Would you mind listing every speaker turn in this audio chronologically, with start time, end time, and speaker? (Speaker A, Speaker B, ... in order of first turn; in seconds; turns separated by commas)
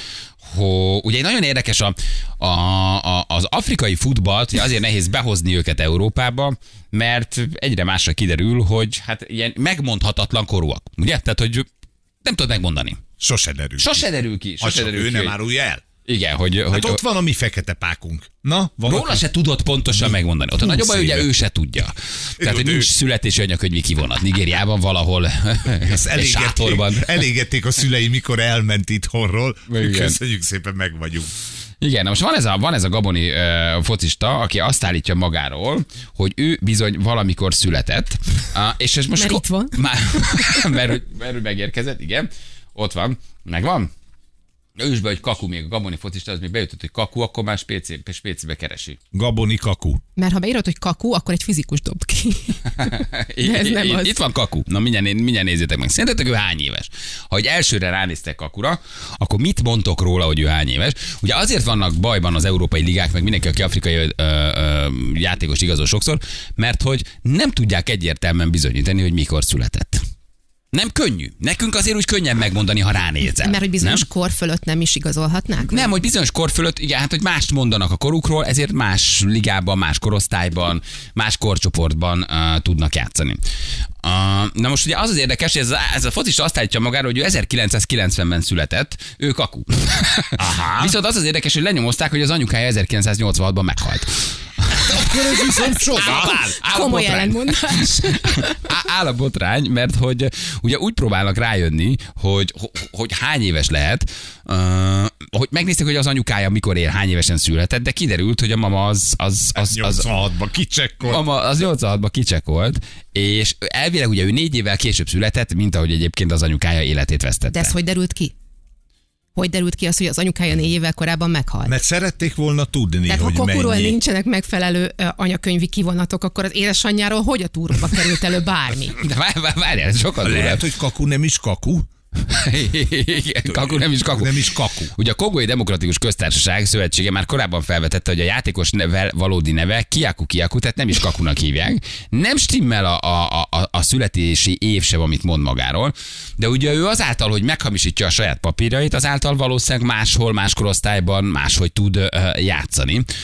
Speaker A: 0.4-11.7, Speaker A: 12.2-13.0, Speaker B: 13.2-14.0, Speaker A: 13.8-15.4, Speaker B: 14.6-15.8, Speaker A: 16.0-17.0, Speaker B: 16.7-19.2, Speaker A: 18.9-27.2, Speaker B: 19.9-21.3, Speaker B: 22.4-22.9, Speaker B: 25.8-31.3, Speaker A: 29.7-30.2, Speaker A: 31.8-43.9, Speaker C: 39.1-40.7, Speaker A: 44.8-49.0, Speaker B: 49.1-50.0, Speaker C: 50.1-54.2, Speaker A: 52.8-70.0, Speaker A: 70.7-74.0, Speaker C: 73.4-75.9, Speaker A: 75.7-83.4, Speaker A: 84.0-110.1, Speaker B: 90.4-90.9, Speaker B: 94.8-96.6, Speaker C: 96.2-98.6, Speaker B: 109.5-111.2, Speaker A: 111.0-117.7, Speaker C: 117.5-118.3, Speaker C: 119.3-121.8, Speaker B: 121.7-124.0, Speaker C: 123.1-129.0, Speaker A: 128.9-130.7, Speaker B: 130.2-131.9, Speaker A: 132.3-153.1, Speaker B: 133.5-134.9